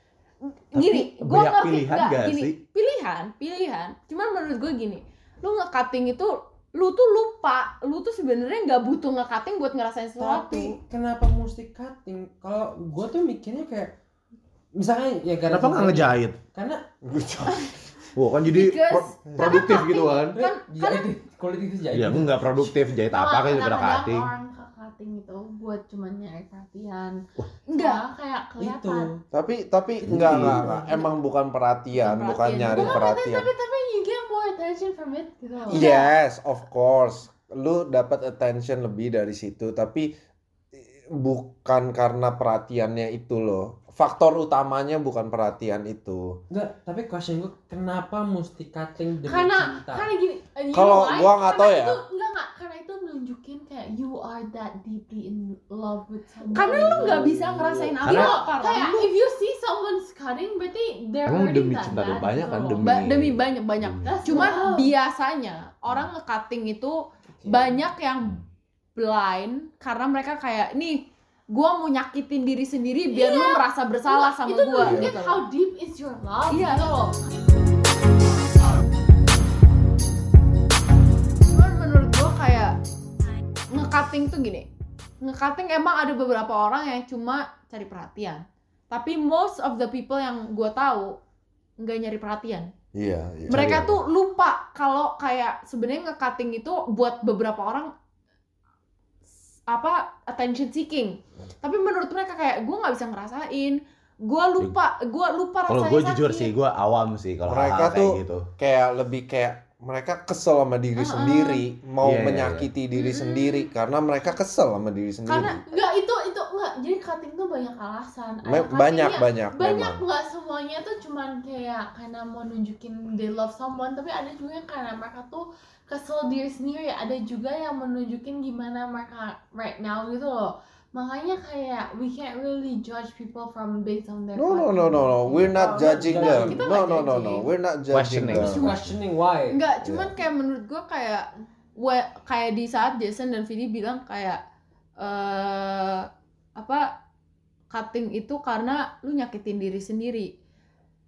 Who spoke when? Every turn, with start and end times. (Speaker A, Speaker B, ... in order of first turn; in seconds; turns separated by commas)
Speaker A: 0.5-10.8, Speaker B: 0.8-2.6, Speaker C: 10.2-13.9, Speaker C: 14.8-16.8, Speaker B: 15.5-16.4, Speaker D: 17.0-17.8, Speaker B: 18.1-20.4, Speaker A: 18.4-21.1, Speaker D: 19.3-19.6, Speaker C: 20.4-22.6, Speaker B: 21.9-24.3, Speaker E: 23.0-29.2, Speaker A: 27.7-28.0, Speaker C: 28.6-29.1, Speaker D: 29.3-33.5, Speaker C: 30.0-31.1, Speaker B: 30.0-30.7, Speaker A: 31.9-33.1, Speaker E: 32.7-35.9, Speaker A: 35.7-36.1, Speaker D: 35.7-40.1, Speaker D: 41.1-46.4, Speaker C: 46.5-50.1, Speaker E: 49.2-57.4, Speaker D: 50.7-52.0, Speaker C: 56.5-57.1, Speaker A: 56.5-59.1, Speaker E: 58.0-62.9, Speaker B: 58.0-58.4, Speaker B: 61.2-64.5, Speaker A: 62.8-68.4, Speaker E: 64.0-64.9, Speaker C: 67.4-67.7, Speaker A: 69.0-71.0, Speaker A: 71.5-75.5, Speaker E: 73.1-77.4, Speaker D: 74.8-75.1, Speaker A: 76.5-77.1, Speaker A: 81.5-82.8, Speaker A: 83.7-84.7, Speaker A: 85.2-91.2, Speaker A: 91.8-92.7, Speaker D: 92.9-94.0, Speaker B: 93.5-93.9, Speaker A: 93.5-97.9, Speaker A: 99.7-106.5, Speaker B: 105.7-108.5, Speaker D: 107.5-115.6, Speaker A: 111.0-111.6, Speaker B: 112.0-112.7, Speaker A: 112.9-113.7, Speaker A: 115.2-115.8, Speaker E: 115.6-137.4, Speaker D: 118.4-120.0, Speaker D: 134.3-138.7, Speaker C: 135.7-136.7, Speaker A: 136.4-137.4, Speaker B: 137.9-139.0, Speaker C: 138.3-139.6, Speaker A: 139.5-144.4, Speaker D: 139.8-140.1, Speaker A: 145.0-146.1, Speaker A: 146.6-146.9, Speaker A: 147.7-150.3